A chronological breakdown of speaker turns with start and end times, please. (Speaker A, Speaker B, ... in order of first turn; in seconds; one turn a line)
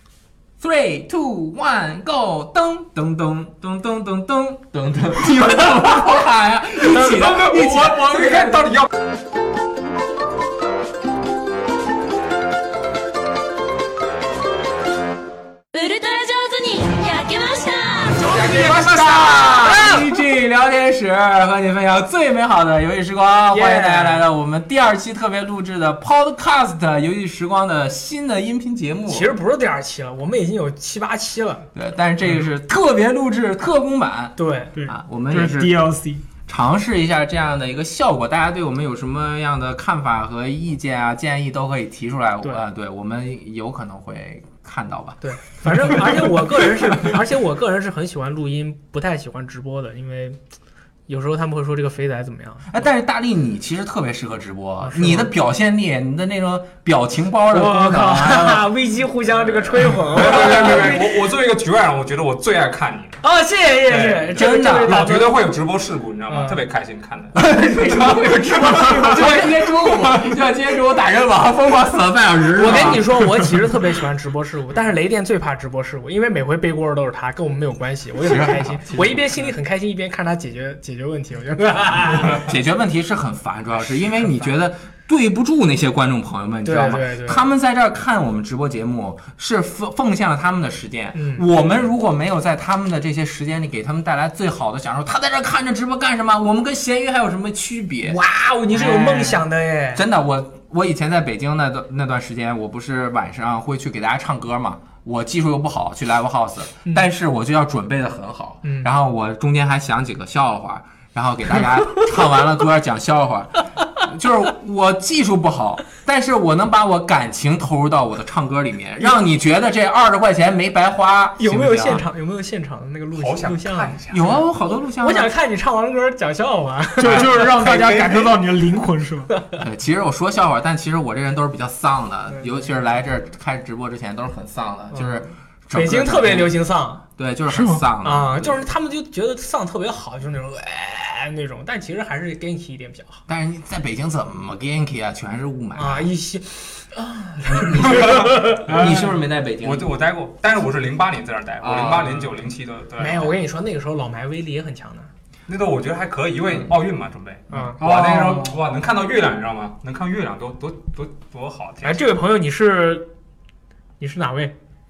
Speaker A: 0.6-8.8
Speaker B: 7.0-8.9
Speaker C: 15.7-18.3
Speaker B: 18.2-19.7
Speaker A: 18.3-29.3
Speaker D: 23.5-24.2
Speaker D: 29.1-31.7
Speaker A: 31.7-36.0
Speaker D: 34.4-34.7
Speaker E: 34.8-36.2
Speaker A: 36.5-46.7
Speaker D: 45.2-50.4
Speaker D: 51.1-52.7
Speaker A: 52.7-58.7
Speaker D: 54.8-55.3
Speaker D: 57.5-61.3
Speaker A: 59.7-61.0
Speaker B: 60.1-63.2
Speaker D: 63.2-65.3
Speaker B: 63.9-67.4
Speaker A: 64.3-65.3
Speaker D: 66.3-66.6
Speaker A: 67.3-73.3
Speaker D: 68.6-69.5
Speaker D: 72.5-82.5
Speaker A: 78.2-79.3
Speaker A: 82.2-98.2
Speaker D: 86.6-87.5
Speaker D: 91.1-91.5
Speaker D: 98.0-100.0
Speaker A: 98.7-99.4
Speaker A: 99.9-122.0
Speaker D: 108.6-108.9
Speaker D: 121.4-124.0
Speaker B: 123.2-124.4
Speaker A: 124.1-125.3
Speaker D: 125.0-127.3
Speaker E: 127.0-129.3
Speaker B: 127.0-128.5
Speaker A: 129.6-136.6
Speaker D: 132.3-132.6
Speaker D: 134.9-137.0
Speaker A: 137.2-138.6
Speaker E: 137.5-137.8
Speaker D: 138.0-143.2
Speaker A: 143.3-146.1
Speaker D: 145.8-148.7
Speaker A: 147.5-149.9
Speaker E: 148.7-149.1
Speaker B: 149.6-153.4
Speaker A: 151.6-152.3
Speaker D: 153.0-155.1
Speaker B: 155.5-162.0
Speaker D: 157.5-157.8
Speaker E: 157.8-158.6
Speaker D: 161.8-163.1
Speaker D: 164.0-164.6